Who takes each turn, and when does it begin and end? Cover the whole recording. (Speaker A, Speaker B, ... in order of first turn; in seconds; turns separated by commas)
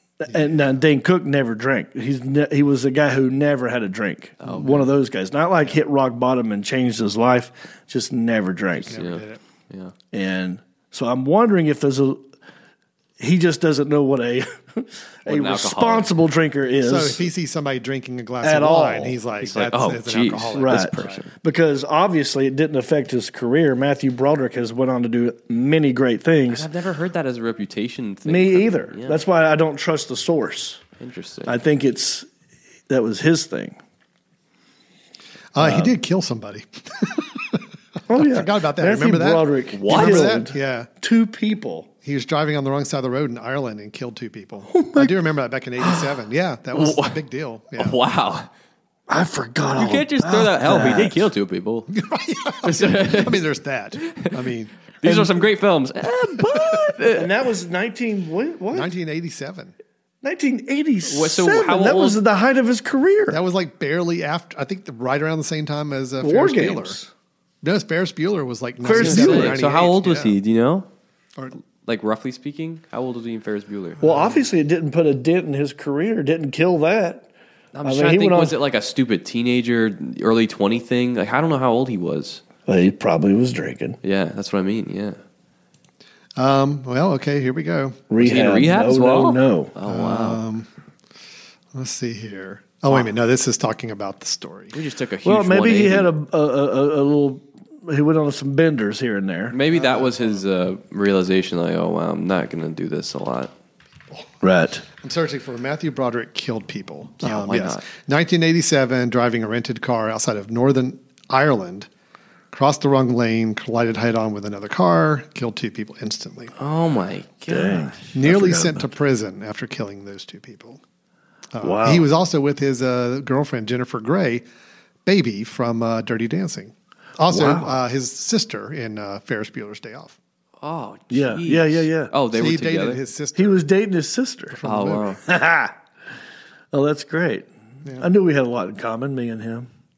Speaker A: 0.2-9.0, Speaker B: 4.4-4.9, Speaker C: 8.9-9.4, Speaker B: 8.9-9.9, Speaker A: 10.1-12.2, Speaker A: 13.2-17.3, Speaker B: 15.2-16.1, Speaker C: 16.8-21.2, Speaker A: 18.4-19.2, Speaker B: 19.4-21.3, Speaker A: 20.5-26.7, Speaker B: 26.5-29.2, Speaker A: 28.2-30.8, Speaker B: 31.0-31.6, Speaker A: 31.4-32.3, Speaker A: 32.9-33.8, Speaker C: 35.5-37.5, Speaker A: 35.6-35.9, Speaker A: 38.1-41.9, Speaker C: 38.1-40.9, Speaker B: 39.7-40.4, Speaker C: 42.0-48.0, Speaker A: 44.7-45.2, Speaker B: 46.7-47.2, Speaker B: 47.8-48.5, Speaker A: 49.1-51.2, Speaker B: 49.8-51.9, Speaker C: 51.9-54.8, Speaker B: 52.6-53.5, Speaker B: 54.0-54.4, Speaker B: 55.0-57.3, Speaker A: 57.1-58.9, Speaker C: 58.7-59.7, Speaker A: 60.2-63.4, Speaker B: 61.0-62.2, Speaker C: 63.3-67.0, Speaker A: 66.2-67.1, Speaker C: 67.6-70.4, Speaker A: 68.8-69.6, Speaker B: 68.9-70.9, Speaker B: 71.8-74.0, Speaker A: 74.0-77.3, Speaker C: 74.0-74.4, Speaker B: 77.7-82.4, Speaker A: 77.8-78.5, Speaker A: 82.7-84.0, Speaker B: 84.0-85.2, Speaker C: 86.4-88.0, Speaker A: 88.1-89.7, Speaker B: 88.2-90.4, Speaker C: 89.9-90.7, Speaker C: 91.7-94.7, Speaker B: 94.7-96.1, Speaker A: 95.2-99.6, Speaker B: 99.5-103.5, Speaker C: 99.7-100.4, Speaker A: 104.4-104.8, Speaker C: 105.0-111.9, Speaker B: 107.2-107.8, Speaker C: 112.5-116.5, Speaker B: 116.6-118.0, Speaker A: 117.5-118.9, Speaker C: 118.1-120.8, Speaker C: 121.5-124.4, Speaker A: 121.6-122.1, Speaker C: 125.0-130.2, Speaker A: 127.3-127.7, Speaker B: 130.6-133.0, Speaker A: 131.1-132.1, Speaker C: 132.3-133.6, Speaker A: 133.3-134.6, Speaker C: 134.5-135.2, Speaker B: 134.6-135.2, Speaker A: 135.2-135.7, Speaker A: 136.7-137.5, Speaker A: 138.0-139.7